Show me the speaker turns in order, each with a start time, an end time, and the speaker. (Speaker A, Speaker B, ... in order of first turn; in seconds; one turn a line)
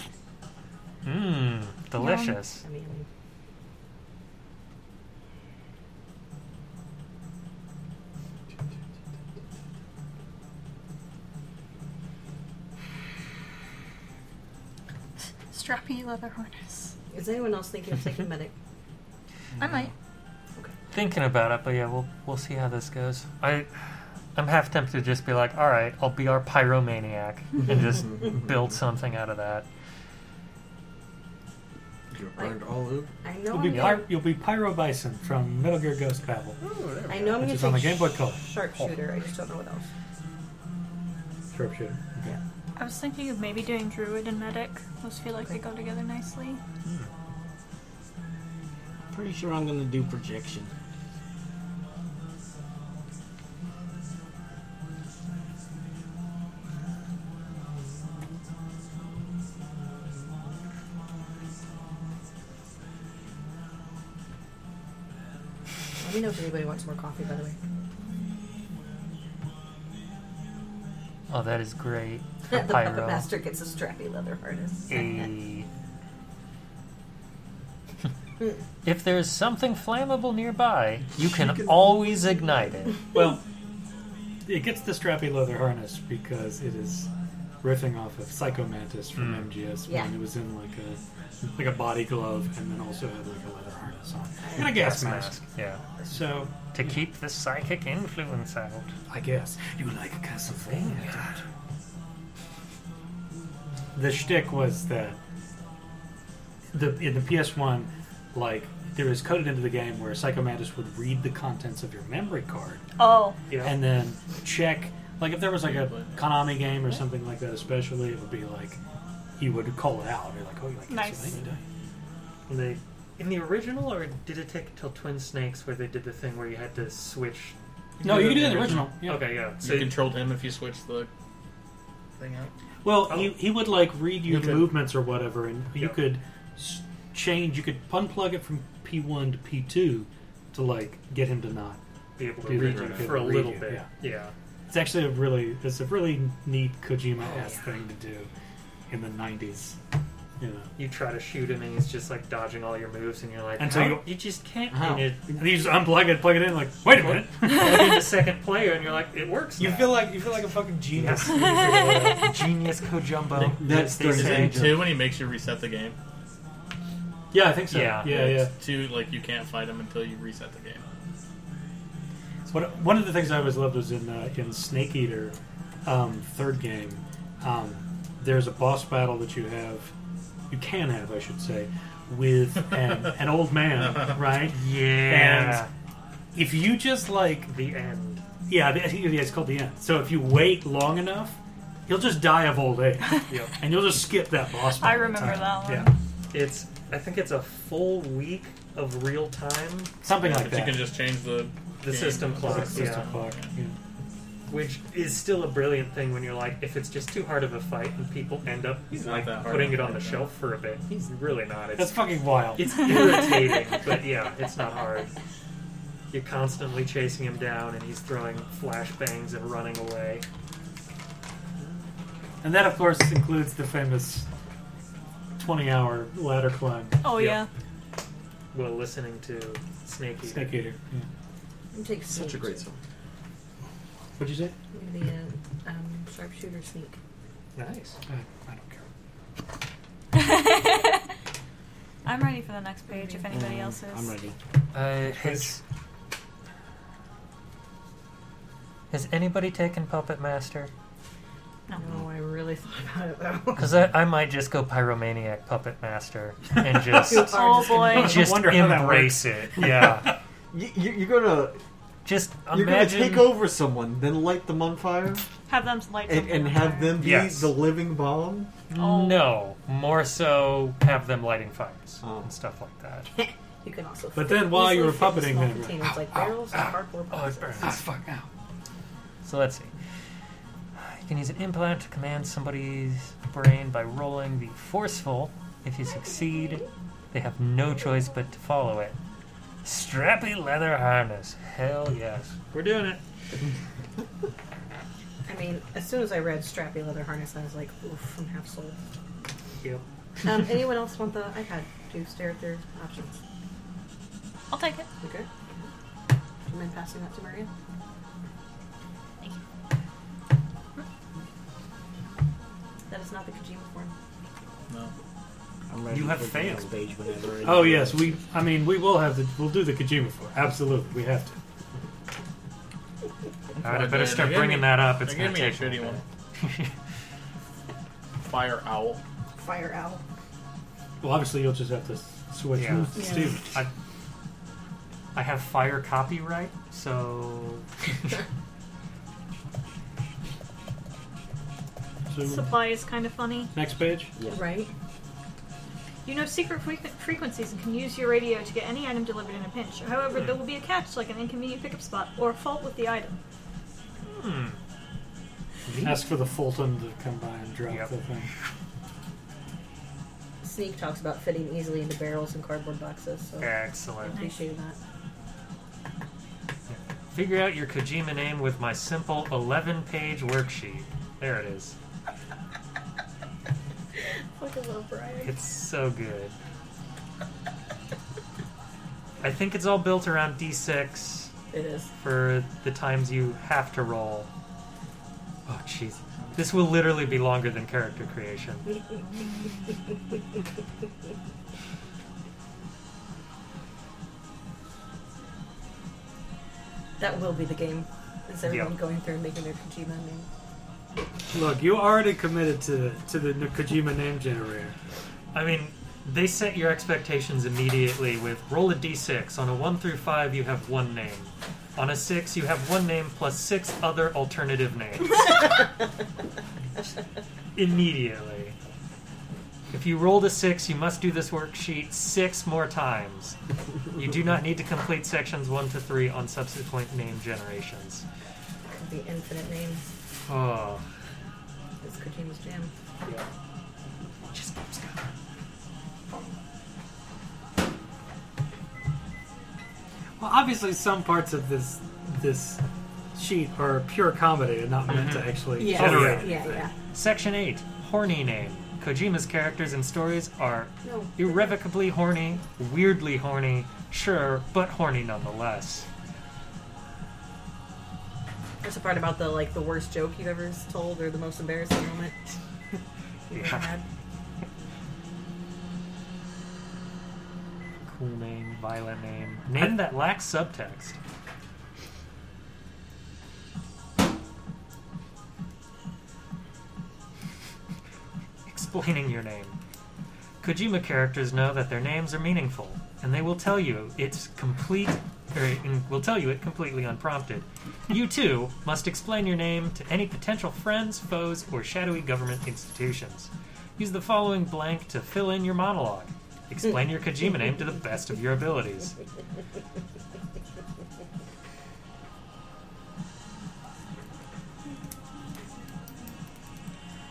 Speaker A: 1.1-2.6
Speaker B: 2.0-2.4
Speaker C: 2.6-3.1
Speaker B: 15.5-17.0
Speaker C: 17.1-18.5
Speaker B: 19.6-19.9
Speaker A: 20.9-23.7
Speaker A: 24.4-29.7
Speaker D: 27.7-28.8
Speaker D: 32.1-33.1
Speaker C: 33.2-34.2
Speaker E: 33.5-36.6
Speaker C: 37.1-39.9
Speaker E: 37.4-38.9
Speaker E: 41.5-42.4
Speaker B: 42.8-46.6
Speaker F: 49.1-50.7
Speaker C: 66.0-67.6
Speaker A: 71.3-73.3
Speaker C: 72.5-75.3
Speaker A: 74.9-75.7
Speaker A: 78.8-83.0
Speaker E: 83.1-83.4
Speaker E: 84.5-87.1
Speaker E: 87.6-91.0
Speaker A: 89.2-89.5
Speaker C: 89.9-90.2
Speaker E: 91.5-95.5
Speaker A: 94.6-95.8
Speaker E: 96.1-97.0
Speaker A: 96.7-98.9
Speaker E: 99.1-101.4
Speaker A: 100.7-101.3
Speaker E: 104.0-105.2
Speaker E: 106.7-112.8
Speaker B: 113.0-113.4
Speaker A: 113.5-113.8
Speaker E: 113.6-118.8
Speaker G: 115.6-116.3
Speaker E: 119.4-121.6
Speaker B: 120.9-121.4
Speaker A: 122.5-130.0
Speaker G: 128.0-128.9
Speaker E: 128.0-129.3
Speaker G: 129.6-131.1
Speaker G: 132.2-132.5
Speaker E: 132.8-141.8
Speaker A: 133.1-133.3
Speaker G: 134.2-134.7
Speaker A: 135.8-136.1
Speaker A: 142.2-144.3
Speaker E: 142.4-143.9
Speaker D: 142.5-143.4
Speaker E: 144.7-148.3
Speaker A: 147.2-147.7
Speaker E: 148.9-149.8
Speaker E: 150.4-150.7
Speaker A: 150.8-155.3
Speaker E: 153.6-154.1
Speaker D: 154.7-155.1
Speaker E: 154.9-157.9
Speaker A: 156.9-160.1
Speaker E: 159.6-162.3
Speaker A: 161.0-164.8
Speaker B: 161.4-162.2
Speaker D: 163.4-164.9
Speaker G: 164.1-166.0
Speaker E: 167.3-168.5
Speaker A: 167.7-168.2
Speaker G: 168.1-170.8
Speaker E: 172.5-179.9
Speaker E: 180.5-185.7
Speaker A: 184.5-185.7
Speaker E: 186.3-187.5
Speaker A: 187.4-188.2
Speaker E: 188.5-195.9
Speaker A: 193.3-193.5
Speaker B: 194.8-195.9
Speaker A: 196.3-199.9
Speaker E: 200.0-200.9
Speaker G: 200.2-203.5
Speaker A: 201.8-203.2
Speaker E: 202.4-203.8
Speaker A: 204.5-215.1
Speaker G: 208.9-210.3
Speaker E: 211.8-212.8
Speaker A: 216.1-220.2
Speaker E: 222.4-224.3
Speaker E: 225.4-227.0
Speaker B: 227.0-227.5
Speaker A: 227.1-227.5
Speaker A: 228.5-230.7
Speaker E: 230.2-231.1
Speaker C: 231.7-232.6
Speaker D: 232.1-232.8
Speaker E: 234.2-234.6
Speaker C: 234.7-237.0
Speaker A: 237.6-238.0
Speaker E: 238.1-238.8
Speaker B: 240.1-241.0
Speaker B: 242.1-244.1
Speaker C: 242.9-243.3
Speaker F: 243.3-244.4
Speaker A: 244.7-245.6
Speaker E: 245.1-245.5
Speaker A: 248.9-250.7
Speaker C: 251.8-253.9
Speaker A: 253.6-260.1
Speaker C: 257.1-258.1
Speaker B: 257.1-258.3
Speaker E: 257.8-260.1
Speaker D: 260.5-261.6
Speaker A: 262.1-263.4
Speaker D: 262.5-265.3
Speaker B: 265.5-267.1
Speaker D: 266.1-268.5
Speaker A: 267.0-267.6
Speaker A: 268.7-273.1
Speaker B: 268.8-269.3
Speaker D: 272.0-272.3
Speaker C: 273.2-277.8
Speaker E: 274.1-276.8
Speaker A: 277.1-277.9
Speaker E: 277.6-278.3
Speaker A: 279.2-279.7
Speaker A: 280.8-289.0
Speaker A: 289.6-293.0
Speaker C: 295.3-298.8
Speaker C: 300.2-303.1
Speaker B: 304.5-304.9
Speaker C: 305.0-305.6
Speaker C: 306.5-307.5
Speaker C: 312.9-313.9
Speaker G: 314.7-314.9
Speaker F: 315.7-318.2
Speaker A: 315.9-316.7
Speaker E: 317.4-321.4
Speaker G: 323.6-326.0
Speaker A: 323.6-326.7
Speaker G: 328.2-329.0
Speaker C: 329.4-330.0
Speaker E: 331.0-333.6
Speaker A: 332.5-333.7
Speaker C: 332.9-333.4
Speaker A: 335.1-337.6
Speaker E: 342.1-342.6
Speaker B: 342.2-343.5
Speaker E: 343.5-344.1
Speaker F: 344.2-344.6
Speaker C: 344.3-344.7
Speaker B: 346.1-353.2
Speaker A: 354.1-354.6
Speaker A: 355.7-356.0
Speaker E: 355.8-358.3
Speaker C: 360.4-364.8
Speaker A: 363.4-364.2
Speaker B: 364.1-364.5
Speaker A: 366.7-371.8
Speaker C: 374.4-375.3
Speaker A: 375.2-376.4
Speaker A: 379.2-381.3
Speaker C: 381.5-381.9
Speaker A: 382.0-384.3
Speaker A: 385.5-388.7
Speaker B: 389.1-389.6
Speaker C: 397.0-400.3
Speaker A: 398.4-398.8
Speaker E: 401.3-404.7
Speaker A: 405.3-415.4
Speaker A: 417.6-418.6
Speaker A: 419.7-423.4
Speaker A: 423.9-428.0
Speaker C: 428.7-429.9
Speaker A: 430.3-430.8
Speaker C: 431.8-432.7
Speaker A: 434.3-435.1
Speaker E: 440.2-442.6
Speaker E: 443.1-446.6
Speaker A: 444.9-455.9
Speaker C: 445.6-446.7
Speaker C: 450.8-451.6
Speaker C: 458.6-462.2
Speaker C: 463.3-463.8
Speaker A: 463.3-463.7
Speaker A: 467.9-471.0
Speaker A: 478.5-479.6
Speaker A: 480.4-499.0